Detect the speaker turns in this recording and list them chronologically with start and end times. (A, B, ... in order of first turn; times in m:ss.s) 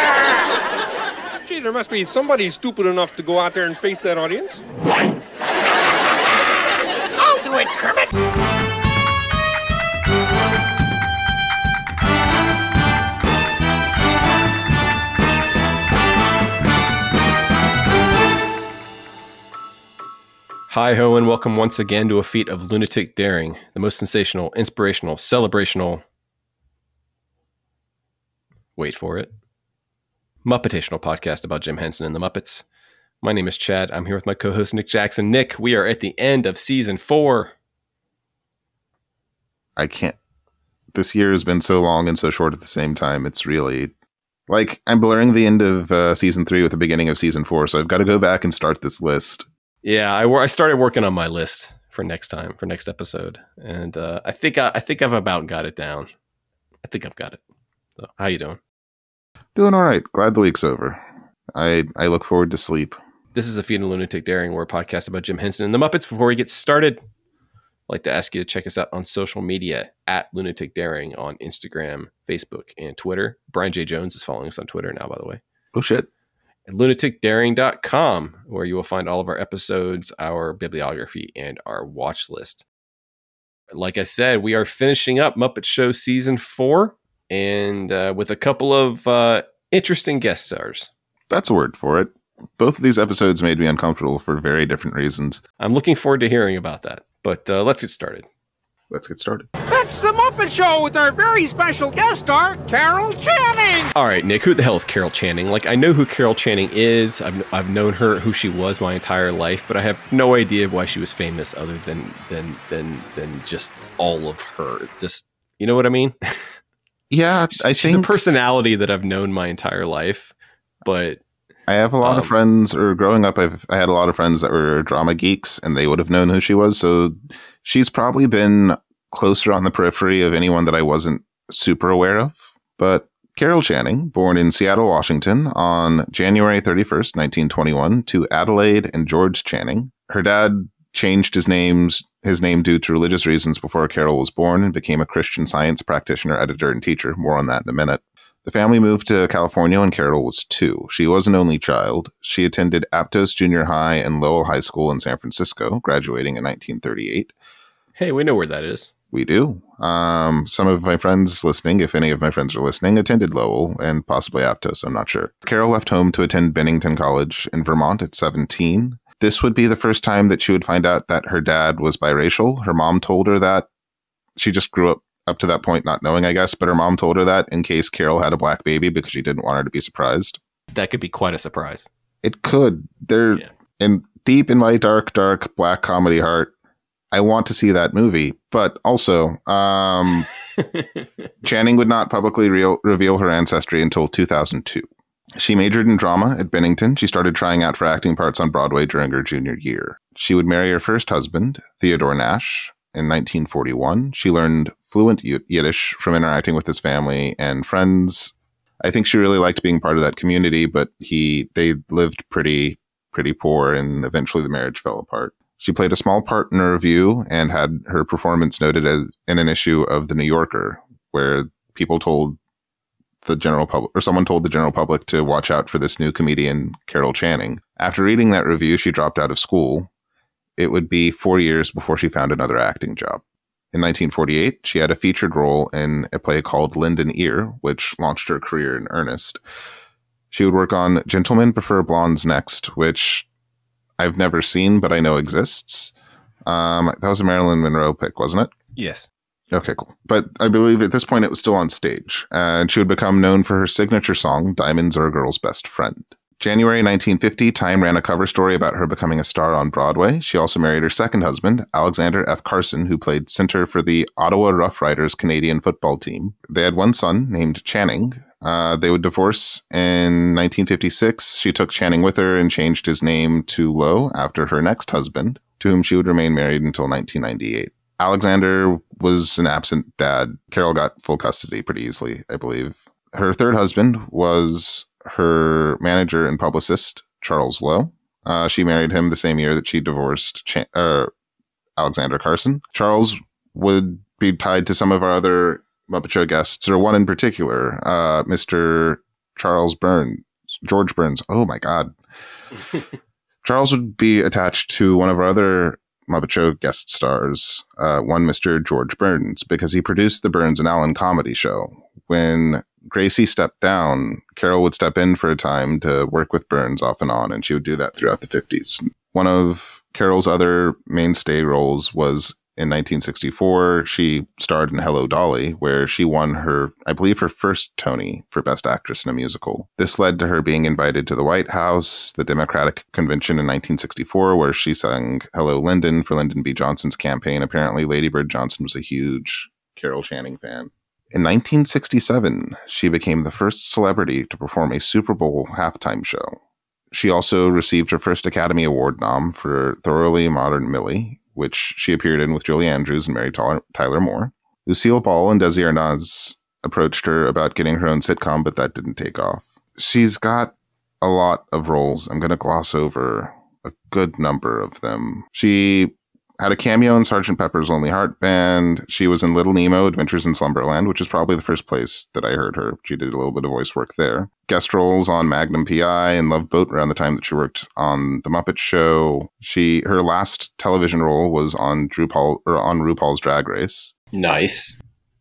0:01.4-0:04.6 A
0:07.3-0:07.7 A
0:20.7-0:26.0 B
0:28.8-0:29.3 B
0:30.4-0:32.6 B
0:33.2-0:37.5 B
0:39.8-0:40.2 C
0:40.9-0:43.9 C
0:44.5-0:49.4 C
0:49.8-0:56.1 B
0:56.8-0:57.4 B
0:58.0-0:58.6 B
0:59.6-1:01.0 C
1:01.5-1:03.0 C
1:03.3-1:07.0 B
1:07.9-1:15.4 B
1:15.7-1:16.1 C
1:16.7-1:22.6 B
1:23.7-1:30.9 B
1:31.3-1:35.4 C
1:35.6-1:38.2 B
1:38.9-1:39.5 C
1:39.7-1:43.9 A
1:43.9-1:56.6 B
1:57.1-1:58.2 C
1:57.5-2:00.3 B
2:00.8-2:01.2 B
2:01.7-2:37.3 C
2:02.0-2:02.3 B
2:38.0-2:38.9 B
2:39.1-2:53.7 C
2:54.4-3:00.4 C
3:00.7-3:01.9 B
3:02.2-3:06.5 C
3:07.1-3:10.3 C
3:10.6-3:11.2 B
3:11.4-3:42.4 C
3:43.2-3:49.9 C
3:50.6-3:59.4 C
4:00.3-4:03.2 C
4:04.0-4:05.9 C
4:06.4-4:08.5 C
4:08.8-4:09.1 B
4:09.5-4:51.1 C
4:51.8-5:01.9 C
5:03.4-5:46.4 C
5:46.9-6:23.9 C
6:24.1-6:24.8 B